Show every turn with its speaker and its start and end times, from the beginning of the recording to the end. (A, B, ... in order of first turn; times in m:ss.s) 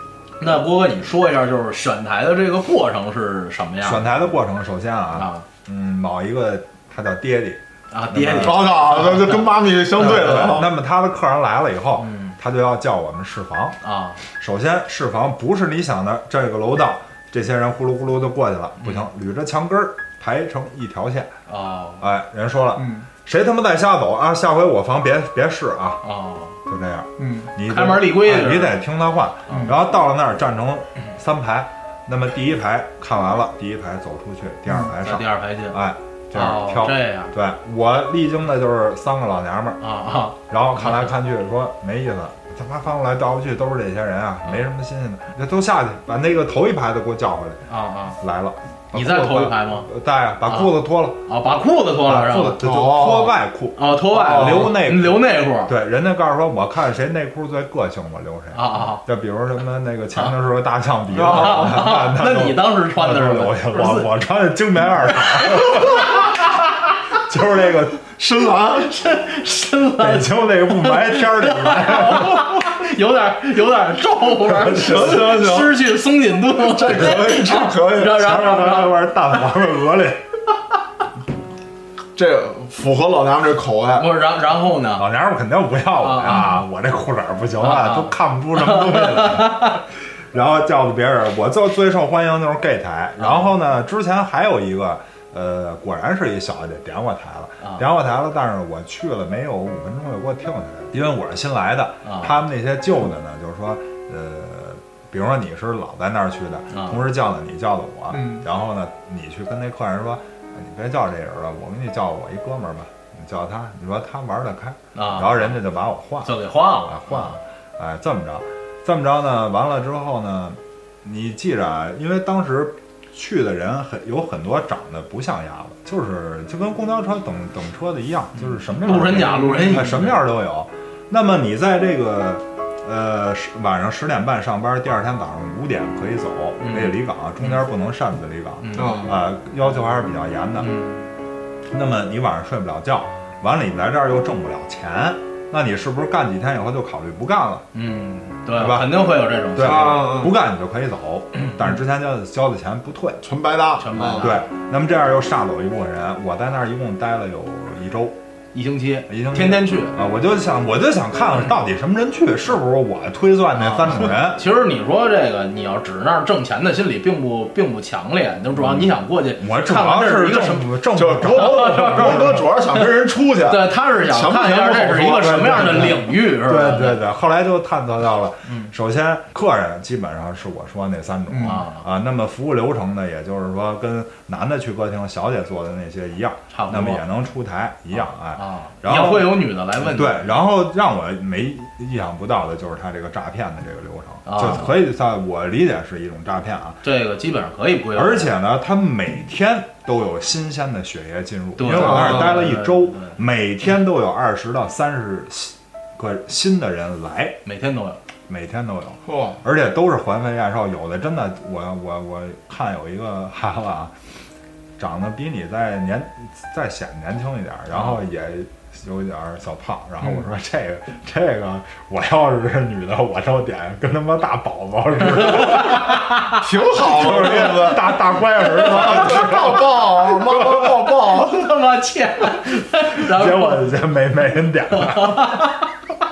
0:00.4-0:04.0 A
0:03.8-0:09.0 B
0:05.2-0:05.5 A
0:07.9-0:09.5 A
0:08.4-0:10.7 C
0:10.0-0:13.8 B
0:10.2-0:10.6 A
0:12.0-0:12.4 A
0:13.8-0:14.2 A
0:14.4-0:21.3 B
0:18.8-0:19.1 A
0:21.5-0:22.0 A
0:22.0-0:26.0 B
0:22.8-0:23.1 C
0:26.0-0:26.6 A
0:26.7-0:39.8 B
0:27.2-0:27.5 C
0:27.6-0:28.8 A
0:29.5-0:29.7 A
0:35.0-0:35.8 A
0:36.3-0:37.3 A
0:39.8-0:41.1 A
0:40.4-0:47.6 B
0:47.7-0:48.2 A
0:48.2-0:51.2 B
0:48.9-0:49.9 A
0:50.5-0:52.6 A
0:52.1-1:06.4 B
0:52.5-0:53.4 C
0:53.8-0:55.7 A
0:54.2-0:54.7 C
0:58.5-0:59.0 A
1:01.2-1:01.7 C
1:01.2-1:04.1 A
1:05.6-1:05.9 A
1:07.2-1:08.0 B
1:08.1-1:08.9 C
1:08.8-1:19.0 A
1:10.0-1:12.7 B
1:14.5-1:15.3 B
1:14.6-1:15.8 C
1:16.6-1:18.4 C
1:18.1-1:20.2 B
1:22.2-1:24.1 C
1:24.0-1:25.0 A
1:25.0-2:20.8 B
1:26.0-1:26.6 A
1:27.6-1:29.8 A
1:33.2-1:33.5 A
1:42.0-1:42.4 A
1:46.7-1:47.0 A
1:48.1-1:48.4 C
1:55.0-1:55.6 A
1:56.2-1:57.4 A
2:08.4-2:10.2 A
2:09.2-2:10.0 C
2:16.6-2:17.5 A
2:18.6-2:19.1 A
2:18.8-2:19.2 C
2:20.6-2:21.1 A
2:21.7-2:27.6 B
2:27.7-2:30.1 A
2:28.6-2:33.2 B
2:29.6-2:30.3 C
2:33.2-2:34.4 C
2:33.8-2:34.4 A
2:34.2-2:38.2 B
2:38.5-2:40.0 A
2:39.1-2:44.4 B
2:43.6-2:52.4 A
2:48.6-2:52.5 B
2:51.0-2:56.0 C
2:53.4-2:57.0 A
2:55.1-3:16.8 B
3:01.3-3:01.6 C
3:01.4-3:01.9 A
3:06.5-3:07.0 A
3:08.4-3:10.4 A
3:14.3-3:14.7 A
3:16.8-3:18.3 A
3:18.0-3:27.4 B
3:21.6-3:23.2 A
3:21.7-3:22.4 C
3:27.4-3:28.0 A
3:28.3-3:33.9 B
3:29.0-3:29.4 C
3:34.8-3:46.0 B
3:45.1-3:46.4 A
3:46.4-3:51.5 C
3:46.8-3:50.7 B
3:51.1-3:53.7 A
3:52.9-3:55.5 B
3:54.7-3:55.7 A